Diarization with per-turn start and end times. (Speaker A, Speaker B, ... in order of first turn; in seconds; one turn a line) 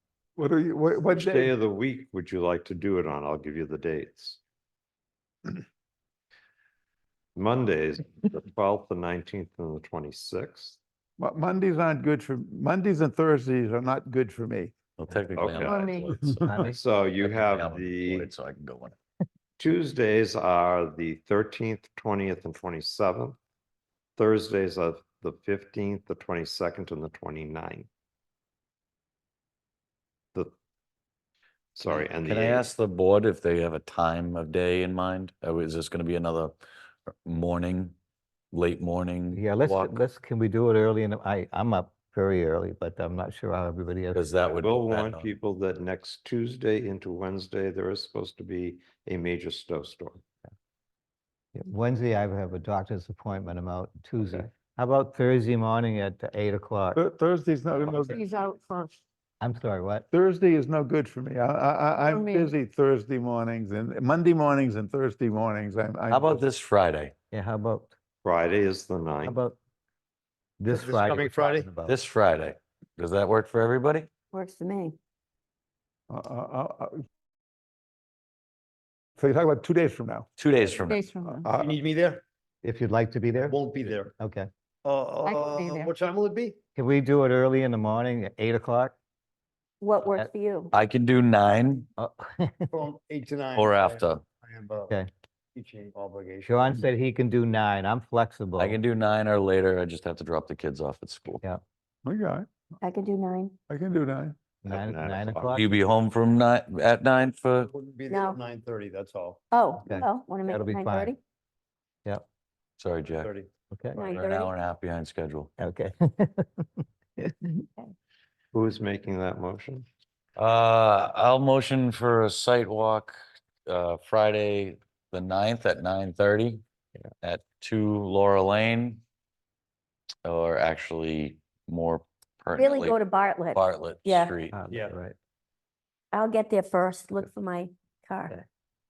Speaker A: 0.4-1.5
Speaker B: 1.0-4.4
Speaker B: 7.4-10.8
Speaker A: 11.2-14.7
Speaker C: 15.0-19.0
Speaker B: 15.3-15.9
Speaker D: 15.6-16.1
Speaker E: 16.5-16.8
Speaker B: 16.6-18.3
Speaker B: 19.6-23.4
Speaker B: 24.2-27.9
Speaker B: 31.8-32.7
Speaker C: 31.9-36.5
Speaker C: 37.2-38.0
Speaker C: 38.5-40.0
Speaker E: 39.3-44.2
Speaker C: 44.1-45.3
Speaker B: 44.5-50.2
Speaker E: 51.5-57.0
Speaker B: 54.2-54.5
Speaker A: 57.0-58.2
Speaker D: 57.9-59.0
Speaker E: 59.4-60.1
Speaker A: 60.1-66.4
Speaker D: 62.0-62.5
Speaker E: 66.1-66.4
Speaker C: 66.1-67.1
Speaker E: 67.3-68.0
Speaker B: 68.2-69.4
Speaker E: 69.2-69.6
Speaker E: 70.6-72.0
Speaker F: 70.7-71.7
Speaker C: 71.8-74.1
Speaker G: 74.3-75.0
Speaker A: 76.1-77.0
Speaker A: 79.2-80.3
Speaker C: 80.4-81.0
Speaker D: 80.9-81.5
Speaker A: 81.2-81.8
Speaker F: 81.6-82.2
Speaker E: 82.6-83.6
Speaker F: 83.5-84.1
Speaker E: 84.2-84.5
Speaker F: 84.8-86.6
Speaker D: 85.2-85.9
Speaker E: 86.8-89.0
Speaker G: 89.8-90.7
Speaker E: 90.0-90.3
Speaker C: 90.7-91.9
Speaker E: 92.0-92.8
Speaker F: 92.7-95.0
Speaker C: 93.5-94.2
Speaker F: 95.5-96.8
Speaker E: 96.5-98.8
Speaker C: 98.6-101.4
Speaker A: 102.0-102.5
Speaker G: 102.8-103.5
Speaker A: 103.7-104.4
Speaker E: 104.6-105.7
Speaker B: 104.7-105.6
Speaker C: 105.5-107.7
Speaker F: 107.6-109.4
Speaker G: 108.1-108.4
Speaker G: 109.5-111.2
Speaker E: 109.8-111.1
Speaker C: 112.8-113.3
Speaker F: 113.2-113.5
Speaker E: 113.7-114.0
Speaker G: 114.0-114.5
Speaker C: 114.0-115.5
Speaker E: 115.6-117.7
Speaker B: 118.5-119.9
Speaker C: 120.4-126.6
Speaker C: 127.2-129.0
Speaker C: 130.2-133.0
Speaker G: 132.6-134.3
Speaker C: 133.5-134.6
Speaker E: 134.5-135.2
Speaker G: 136.1-138.4